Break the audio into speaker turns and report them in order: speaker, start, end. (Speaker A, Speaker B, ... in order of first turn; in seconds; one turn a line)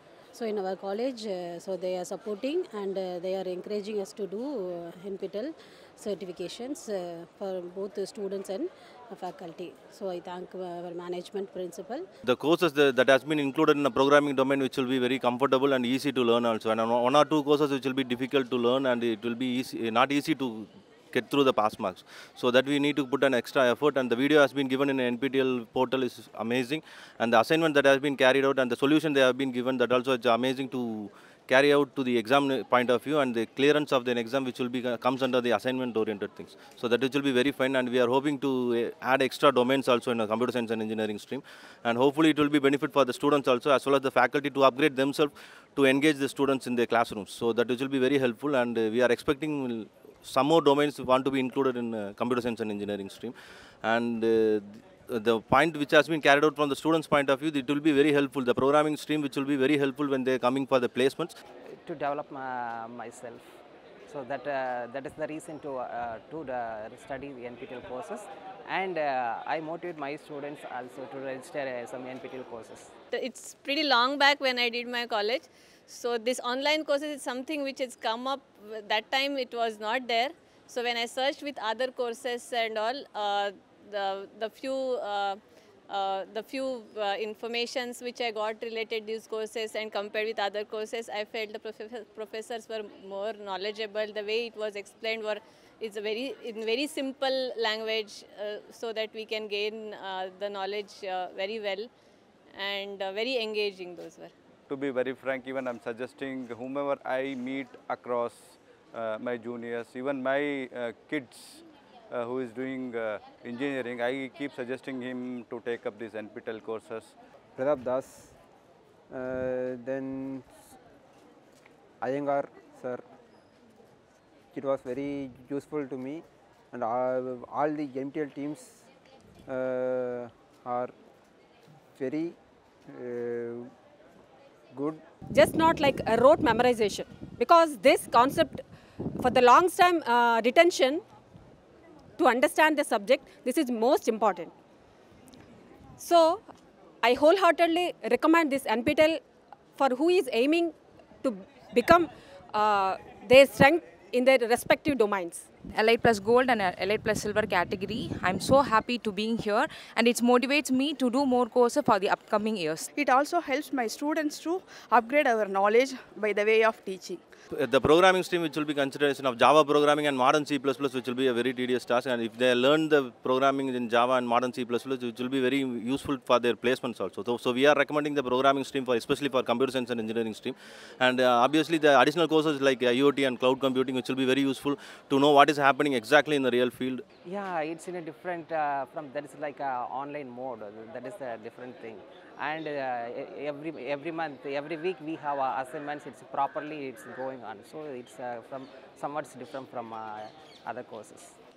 Speaker A: 0.3-12.1
Speaker B: 12.2-61.4
Speaker C: 61.8-63.5
Speaker C: 64.1-72.9
Speaker D: 73.1-101.9
Speaker D: 102.5-104.3
Speaker E: 104.7-117.1
Speaker F: 117.6-118.3
Speaker F: 119.1-120.5
Speaker F: 122.0-123.0
Speaker F: 124.5-128.8
Speaker F: 129.5-130.9
Speaker F: 132.0-132.4
Speaker F: 132.9-133.7
Speaker F: 134.7-135.0
Speaker G: 135.3-138.6
Speaker G: 139.2-141.0
Speaker G: 142.2-144.5
Speaker G: 146.0-146.4
Speaker G: 147.0-149.2
Speaker G: 149.8-155.5
Speaker H: 155.7-162.9
Speaker I: 162.9-167.2
Speaker B: 167.5-187.0
Speaker C: 187.2-201.3